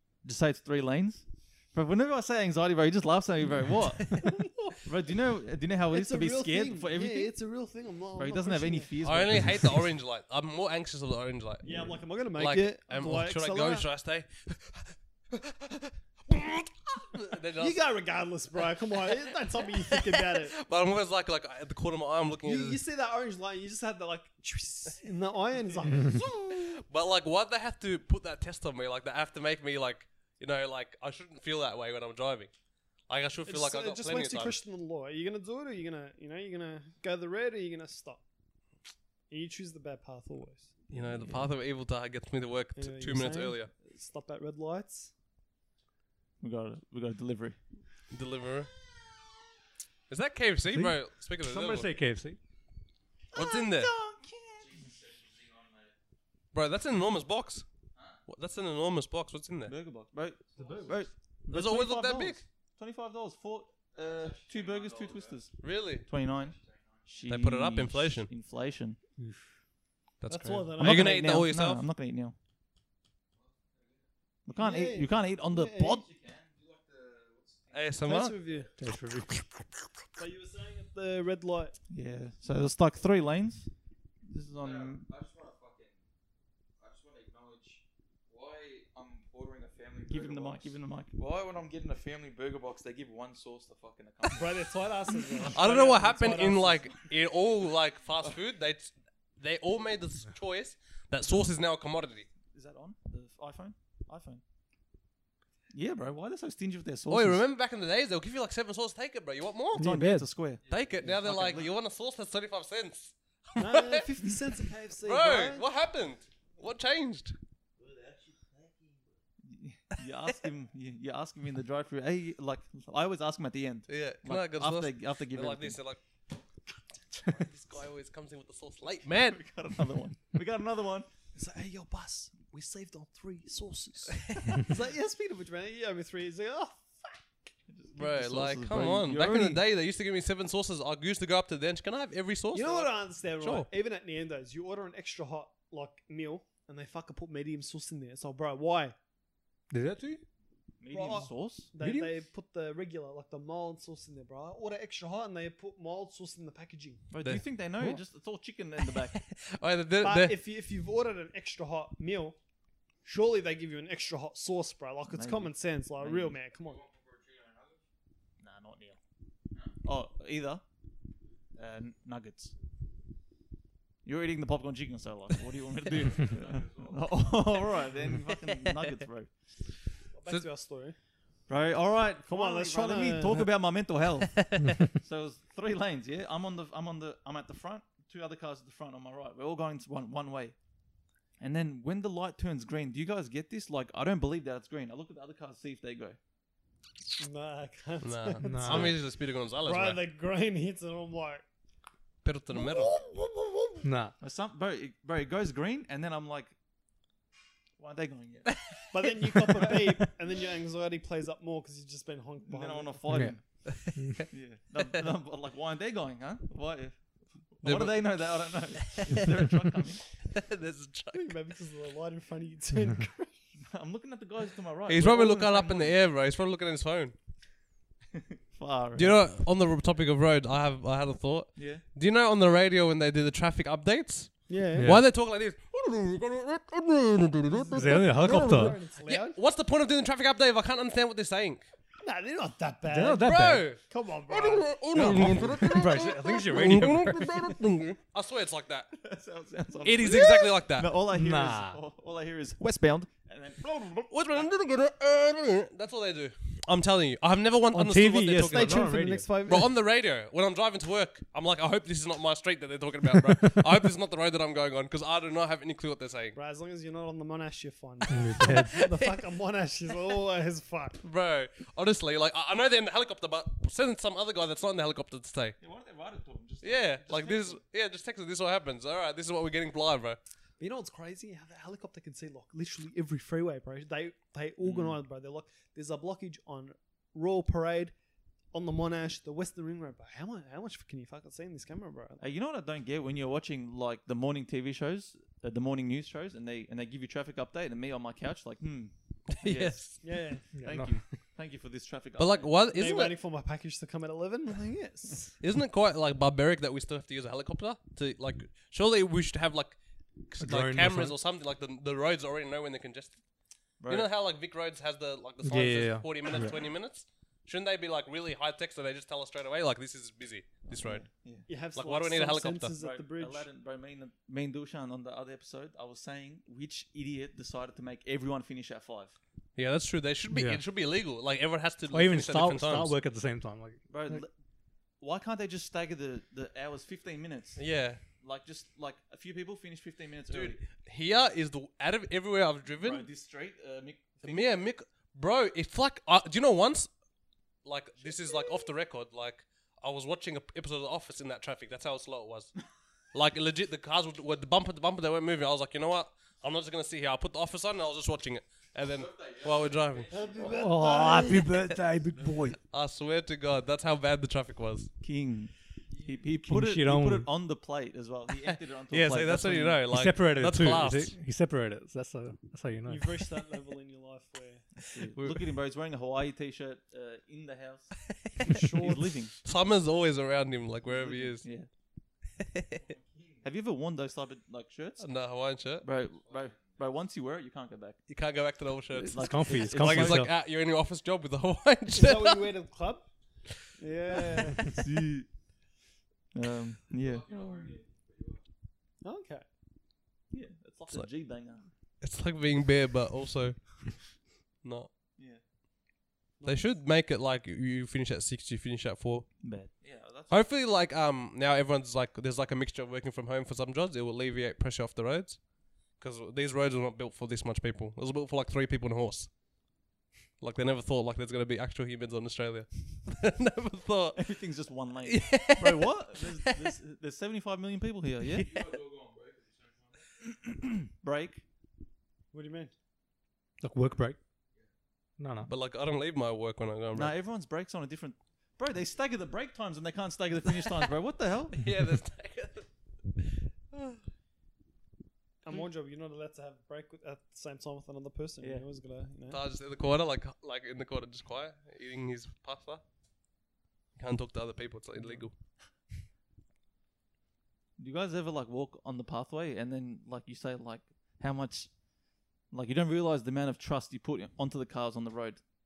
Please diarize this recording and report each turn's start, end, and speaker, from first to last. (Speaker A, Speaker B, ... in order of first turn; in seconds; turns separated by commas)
Speaker A: 0.2-7.3, Speaker B: 5.9-8.9, Speaker A: 8.2-9.9, Speaker C: 9.0-11.7, Speaker B: 11.6-13.9, Speaker C: 12.2-17.8, Speaker B: 17.6-20.6, Speaker C: 19.6-22.8, Speaker B: 22.4-26.2, Speaker C: 26.1-32.5, Speaker C: 33.1-34.6, Speaker B: 33.5-38.2, Speaker B: 39.3-40.7, Speaker A: 40.9-41.5, Speaker C: 40.9-43.7, Speaker B: 42.8-45.1, Speaker A: 46.4-47.6, Speaker C: 48.1-48.7, Speaker C: 50.1-51.9, Speaker D: 50.7-52.4, Speaker A: 53.3-54.9, Speaker C: 53.3-53.9, Speaker C: 56.5-57.7, Speaker C: 58.3-59.7, Speaker A: 59.7-69.0, Speaker B: 60.6-61.0, Speaker C: 61.5-62.4, Speaker C: 65.6-66.1, Speaker C: 67.3-68.3, Speaker D: 69.2-69.5, Speaker C: 70.2-71.8, Speaker B: 70.3-71.3, Speaker A: 70.8-72.3, Speaker A: 74.5-76.2, Speaker B: 74.5-76.0, Speaker C: 77.7-78.4, Speaker B: 78.0-78.7, Speaker D: 78.8-79.9, Speaker B: 80.2-81.8, Speaker A: 81.9-83.7, Speaker A: 84.3-85.1, Speaker E: 85.2-85.8, Speaker E: 86.8-87.8, Speaker E: 88.4-90.1, Speaker A: 90.0-94.6, Speaker B: 94.3-96.9, Speaker C: 95.5-102.3, Speaker A: 102.5-104.4, Speaker A: 105.7-107.4, Speaker C: 107.1-109.9, Speaker D: 109.8-110.3, Speaker A: 109.8-111.7, Speaker C: 110.7-114.3, Speaker B: 113.6-115.7, Speaker C: 115.0-117.4, Speaker A: 119.4-125.8, Speaker C: 123.9-126.0, Speaker C: 127.2-129.4, Speaker A: 129.1-131.1, Speaker B: 131.3-137.2, Speaker A: 137.7-139.6, Speaker C: 138.0-143.7, Speaker B: 142.5-148.9, Speaker D: 149.7-150.2, Speaker A: 150.8-151.7, Speaker B: 150.9-157.0, Speaker D: 151.8-152.1, Speaker A: 157.1-159.2, Speaker C: 158.9-160.4, Speaker B: 160.0-162.4, Speaker B: 163.0-166.9, Speaker A: 165.1-166.4, Speaker A: 168.4-169.0, Speaker A: 169.6-170.6, Speaker A: 171.6-172.5, Speaker A: 174.0-179.3, Speaker B: 180.1-181.0, Speaker A: 181.5-190.6, Speaker B: 182.2-183.5, Speaker A: 191.4-196.2, Speaker B: 197.2-199.0, Speaker C: 198.0-200.0, Speaker D: 198.4-199.0, Speaker B: 199.6-201.4, Speaker C: 202.2-203.0, Speaker B: 202.5-203.8, Speaker D: 203.8-204.2, Speaker A: 204.2-206.6, Speaker A: 207.8-208.6, Speaker B: 208.9-213.2, Speaker A: 209.6-209.8, Speaker A: 212.5-213.6, Speaker D: 213.1-213.4, Speaker C: 213.7-214.3, Speaker D: 213.9-214.2, Speaker A: 214.3-220.0, Speaker C: 217.6-219.2, Speaker C: 220.3-221.4, Speaker B: 221.1-223.5, Speaker A: 223.6-226.0, Speaker C: 224.9-227.1, Speaker A: 228.1-229.2, Speaker C: 229.0-241.7, Speaker A: 231.6-231.8, Speaker B: 234.5-234.9, Speaker D: 234.8-235.0, Speaker B: 237.5-239.4, Speaker D: 237.7-238.8, Speaker B: 242.0-245.5, Speaker D: 242.9-243.8, Speaker C: 243.2-248.9, Speaker D: 245.0-247.6, Speaker A: 245.0-245.4, Speaker A: 248.9-254.5, Speaker C: 249.8-250.9, Speaker D: 251.1-251.8, Speaker C: 254.1-258.9, Speaker D: 257.7-259.3, Speaker B: 258.4-259.7, Speaker C: 259.5-266.4, Speaker B: 266.4-271.0, Speaker D: 268.1-268.8, Speaker C: 268.4-268.9, Speaker C: 271.0-275.6, Speaker A: 275.6-277.6, Speaker C: 276.6-280.2, Speaker B: 280.6-287.9, Speaker A: 284.6-285.0, Speaker B: 288.5-292.2, Speaker A: 292.2-300.0, Speaker C: 299.3-300.0, Speaker B: 300.0-300.5, Speaker D: 300.5-301.0, Speaker A: 300.6-302.5, Speaker C: 302.2-303.2, Speaker B: 302.7-305.4, Speaker C: 305.4-313.2, Speaker D: 310.4-311.1, Speaker A: 313.8-314.1, Speaker C: 313.9-321.1, Speaker D: 315.4-316.5, Speaker A: 320.7-321.5, Speaker B: 321.5-323.5, Speaker C: 321.8-322.7, Speaker A: 322.8-329.2, Speaker C: 329.6-332.9, Speaker D: 330.3-330.6, Speaker D: 331.9-334.2, Speaker A: 333.9-334.3, Speaker A: 335.0-340.6, Speaker C: 337.6-338.0, Speaker C: 340.3-343.1, Speaker A: 342.8-344.5, Speaker C: 344.2-346.9, Speaker C: 347.6-352.6, Speaker C: 353.1-360.2, Speaker B: 360.1-361.6, Speaker D: 360.4-362.6, Speaker C: 362.7-364.9, Speaker A: 365.0-369.8, Speaker D: 366.4-367.3, Speaker C: 368.5-371.2, Speaker D: 369.9-373.3, Speaker B: 372.9-374.7, Speaker A: 374.8-379.4, Speaker C: 375.1-375.4, Speaker B: 378.4-379.1, Speaker C: 379.4-381.5, Speaker A: 380.9-381.7, Speaker C: 382.5-382.8, Speaker A: 383.4-385.1, Speaker C: 385.0-385.9, Speaker A: 385.8-388.0, Speaker C: 388.1-392.5, Speaker A: 388.9-390.3, Speaker D: 389.2-390.3, Speaker B: 391.9-393.1, Speaker B: 393.6-394.8, Speaker A: 394.6-395.3, Speaker A: 396.3-397.8, Speaker B: 399.0-399.4, Speaker A: 400.3-401.7, Speaker C: 402.0-404.9, Speaker B: 406.4-406.8, Speaker C: 406.4-409.5, Speaker A: 409.4-410.4, Speaker C: 410.3-415.5, Speaker C: 416.0-419.3, Speaker C: 420.4-424.2, Speaker A: 424.1-428.7, Speaker C: 425.1-426.7, Speaker C: 428.4-428.7, Speaker A: 430.1-431.4, Speaker B: 432.3-432.7, Speaker D: 433.6-434.2, Speaker D: 435.2-435.5, Speaker C: 435.5-437.1, Speaker A: 436.9-441.7, Speaker C: 441.6-444.0, Speaker B: 445.4-449.4, Speaker C: 449.3-452.8, Speaker C: 454.0-455.4, Speaker A: 457.8-461.7, Speaker A: 462.5-465.4